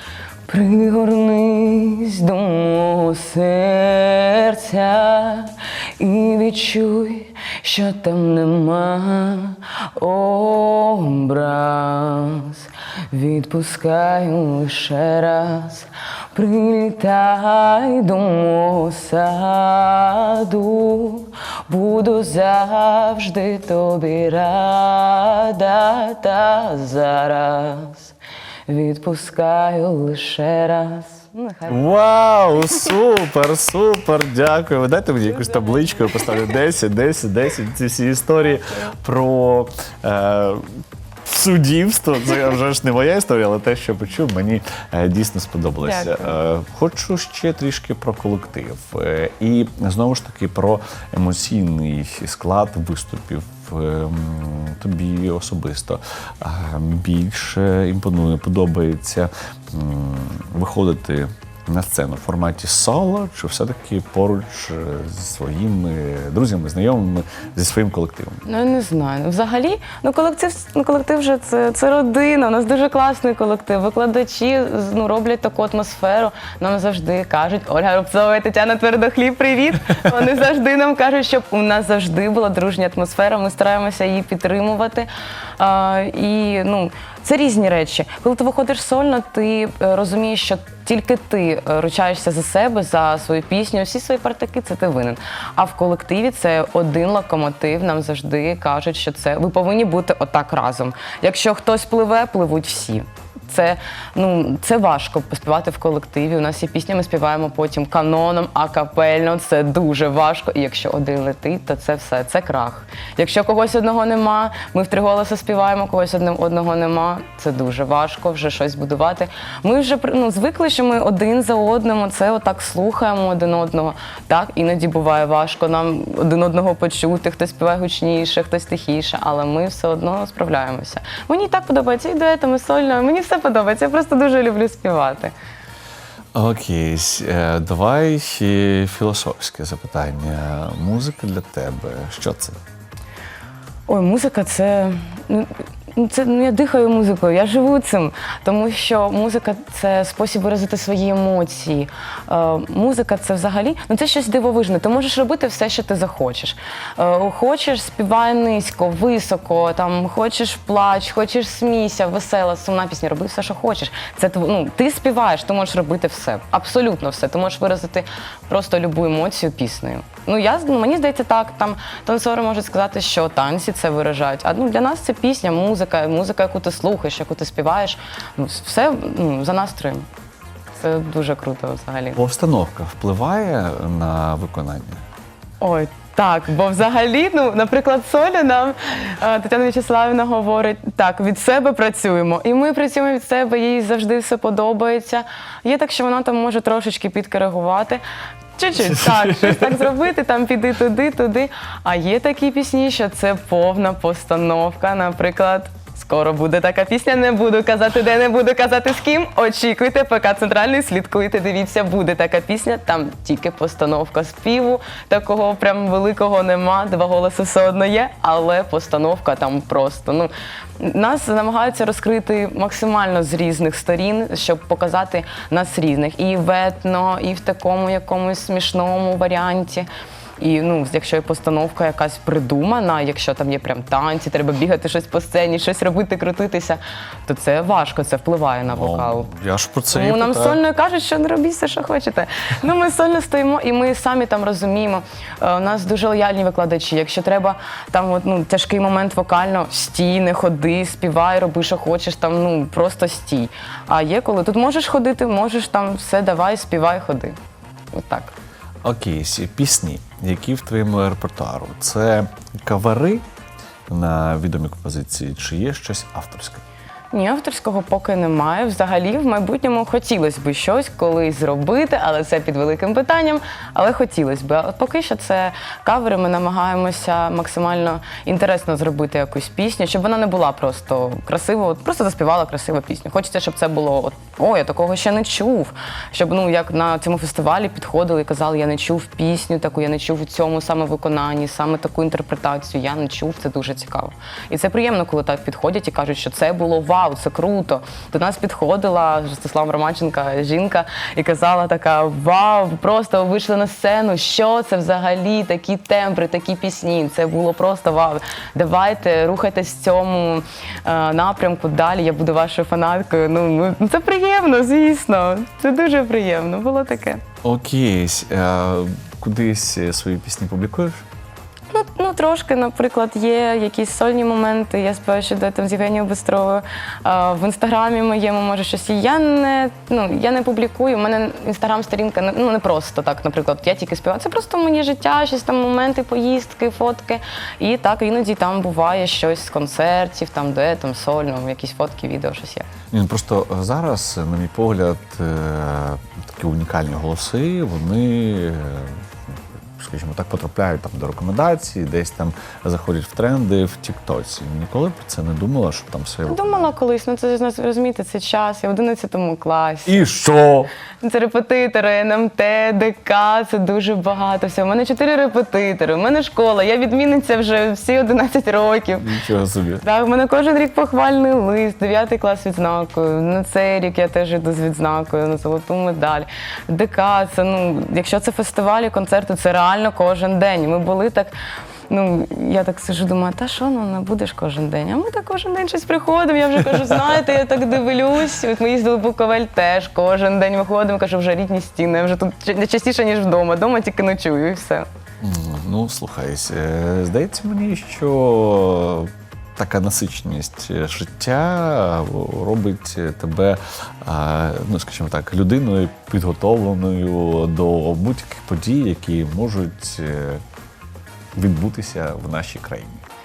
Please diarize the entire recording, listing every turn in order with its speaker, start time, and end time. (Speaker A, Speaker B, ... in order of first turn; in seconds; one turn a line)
Speaker A: 0.5-28.1
Speaker A: 28.7-31.9
Speaker B: 31.7-68.4
Speaker A: 35.3-36.4
Speaker A: 45.8-46.3
Speaker A: 68.5-135.3
Speaker B: 136.3-142.6
Speaker A: 143.9-180.1
Speaker A: 180.8-182.2
Speaker B: 182.1-185.0
Speaker A: 185.6-198.0
Speaker A: 198.6-239.3
Speaker B: 198.8-199.8
Speaker B: 238.7-240.6
Speaker A: 239.9-257.4
Speaker A: 257.9-258.3
Speaker B: 258.8-263.2
Speaker B: 263.9-266.6
Speaker A: 267.1-317.2
Speaker B: 317.4-321.0
Speaker A: 321.7-342.7
Speaker B: 342.9-349.0
Speaker B: 349.8-356.7
Speaker A: 356.2-360.1
Speaker B: 359.9-360.7
Speaker A: 361.0-369.1
Speaker B: 369.0-369.8
Speaker A: 369.8-381.3
Speaker A: 381.9-394.9
Speaker B: 395.2-410.4
Speaker B: 411.4-413.0